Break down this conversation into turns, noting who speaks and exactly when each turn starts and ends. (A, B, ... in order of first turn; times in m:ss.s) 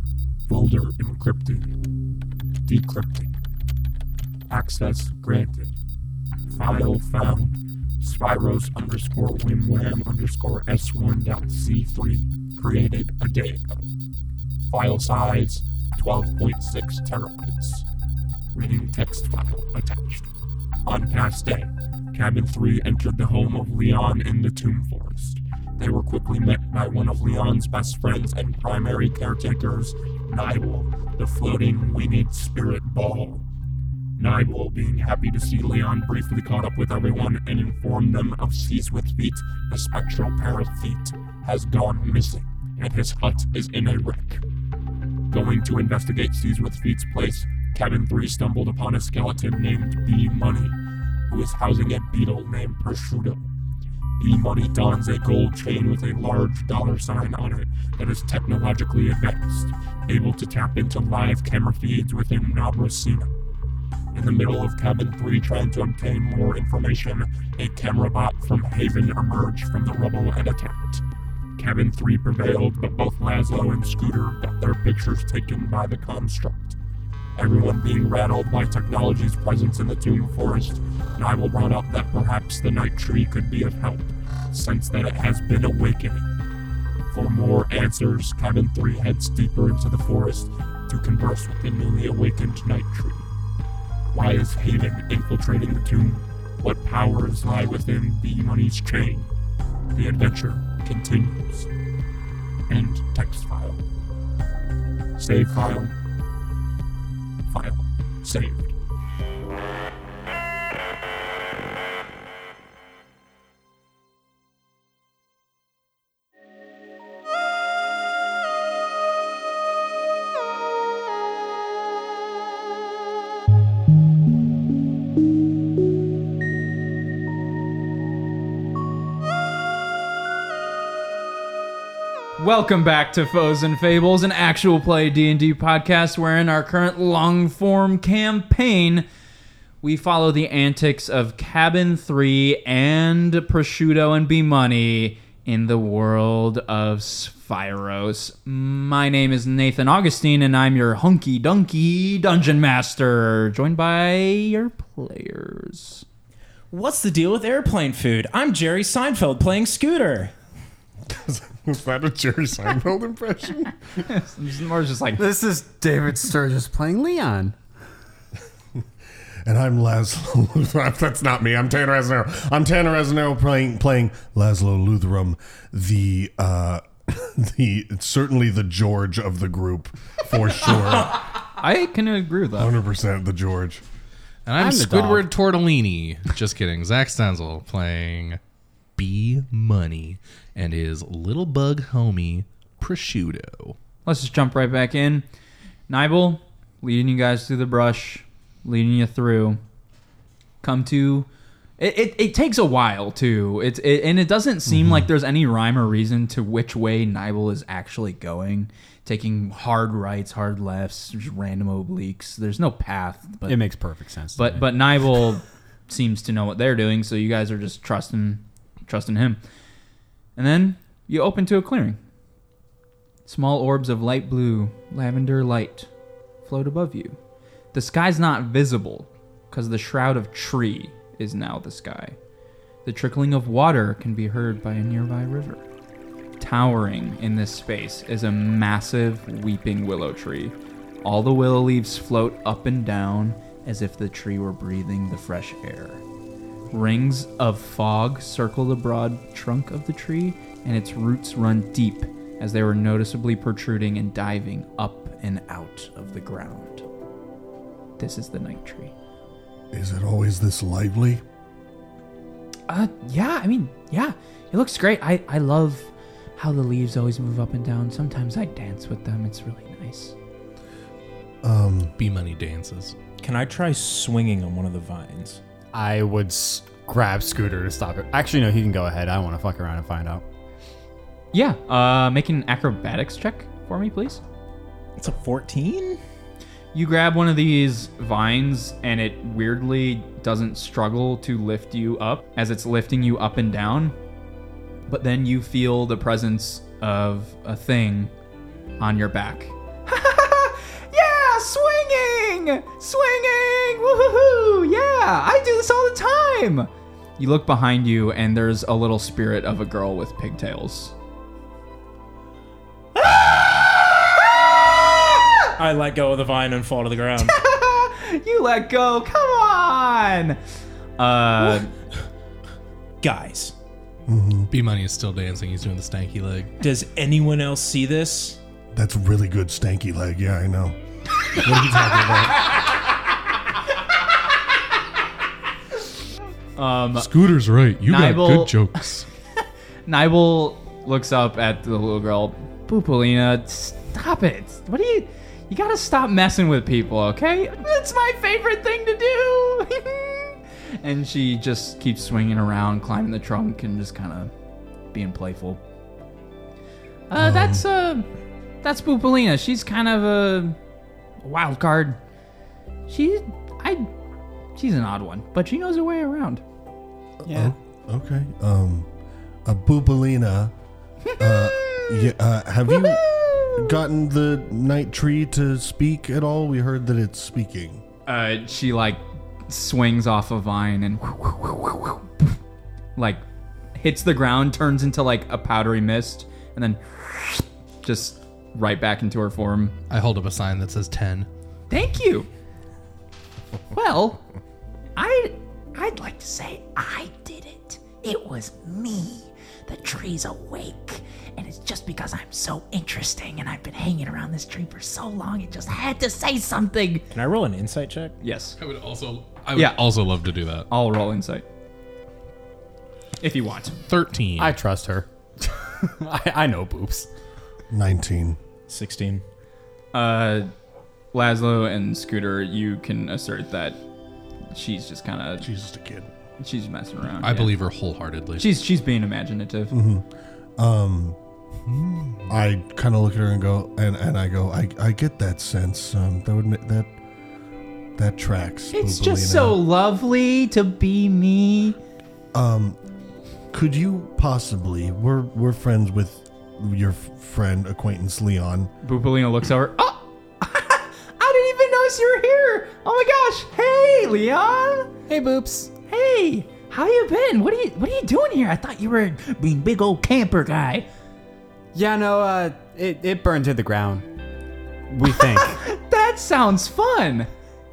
0:00.5-0:01.7 A
0:02.6-0:03.3 A
0:04.5-0:05.7 A
0:06.5-0:13.8 A
0:14.7-0:17.9 A
0:18.5-0:20.3 A
0:20.9-0:33.4 A
0:34.2-0:44.4 A
0:45.3-0:53.4 A
0:54.2-1:03.3 A
1:04.1-1:11.0 A
1:11.6-1:16.8 A
1:17.4-1:26.3 A
1:27.1-1:33.3 A
1:34.1-1:39.3 A
1:39.9-1:41.7 A
1:42.7-1:43.8 A
1:45.2-1:46.0 A
1:47.5-1:48.7 A
2:12.4-2:19.1 B
2:19.8-2:36.1 B
2:36.7-2:40.3 C
2:41.1-2:43.8 D
2:44.0-2:45.2 B
2:45.2-2:47.6 E
2:49.4-3:01.2 D
3:01.6-3:02.7 B
3:02.6-3:03.8 D
3:04.5-3:08.4 F
3:04.6-3:05.3 E
3:09.0-3:13.8 F
3:14.1-3:15.3 B
3:15.9-3:19.6 B
3:20.6-3:33.6 B
3:33.5-3:34.7 E
3:34.4-3:39.4 B
3:40.4-3:42.0 B
3:43.2-3:45.9 B
3:46.4-3:47.2 B
3:47.7-3:52.2 B
3:52.8-3:55.6 B
3:56.4-4:06.0 B
4:06.7-4:16.8 B
4:18.0-4:18.9 B
4:19.7-4:21.2 D
4:22.7-4:30.2 B
4:31.4-4:31.9 D
4:32.0-4:33.0 F
4:33.2-4:35.4 C
4:35.7-4:40.2 E
4:41.3-4:44.2 B
4:45.0-4:46.0 C
4:46.7-4:54.0 B
4:54.9-4:58.1 B
4:58.8-5:11.0 B
5:13.1-5:15.4 B
5:15.6-5:17.4 C
5:17.2-5:20.4 B
5:21.0-5:21.7 B
5:23.0-5:23.5 C
5:24.1-5:24.5 D
5:24.5-5:26.6 F
5:26.6-5:28.4 C
5:28.7-5:30.8 D
5:31.4-5:32.6 D
5:31.6-5:32.3 F
5:36.6-5:37.1 B
5:37.0-5:39.1 F
5:37.9-5:38.6 B
5:39.9-5:54.3 B
5:54.9-5:55.6 B
5:57.1-5:58.1 B
5:57.2-5:57.6 D
5:58.6-6:00.6 B
6:01.2-6:02.0 B
6:02.9-6:03.9 B
6:04.6-6:06.4 B
6:07.2-6:08.9 D
6:07.3-6:07.5 E
6:09.4-6:10.5 D
6:11.1-6:12.1 B
6:11.2-6:17.8 D
6:12.7-6:13.8 B
6:18.1-6:22.4 B
6:23.0-6:23.2 B
6:23.8-6:29.8 B
6:29.9-6:31.3 F
6:31.7-6:32.3 B
6:33.7-6:34.2 B
6:35.0-6:47.1 B
6:47.1-6:48.2 C
6:48.2-6:48.6 B
6:48.6-6:50.7 F
6:49.6-6:49.8 B
6:50.7-6:51.4 B
6:53.2-6:53.8 B
6:53.9-6:54.6 F
6:54.4-6:57.1 E
6:57.7-6:58.4 D
6:58.7-6:59.2 C
6:59.9-7:00.5 B
7:01.1-7:03.8 B
7:04.5-7:05.5 B
7:05.4-7:06.1 D
7:06.4-7:07.5 B
7:07.2-7:08.5 F
7:08.4-7:09.8 B
7:09.7-7:10.0 D
7:10.6-7:11.2 D
7:11.7-7:12.3 F
7:12.3-7:16.9 D
7:18.0-7:19.6 D
7:18.7-7:21.8 B
7:22.3-7:22.8 D
7:23.5-7:28.7 D
7:28.8-7:34.9 B
7:35.1-7:35.7 E
7:35.9-7:40.9 B
7:41.7-7:44.1 E
7:44.9-7:45.6 E
7:45.1-7:47.3 B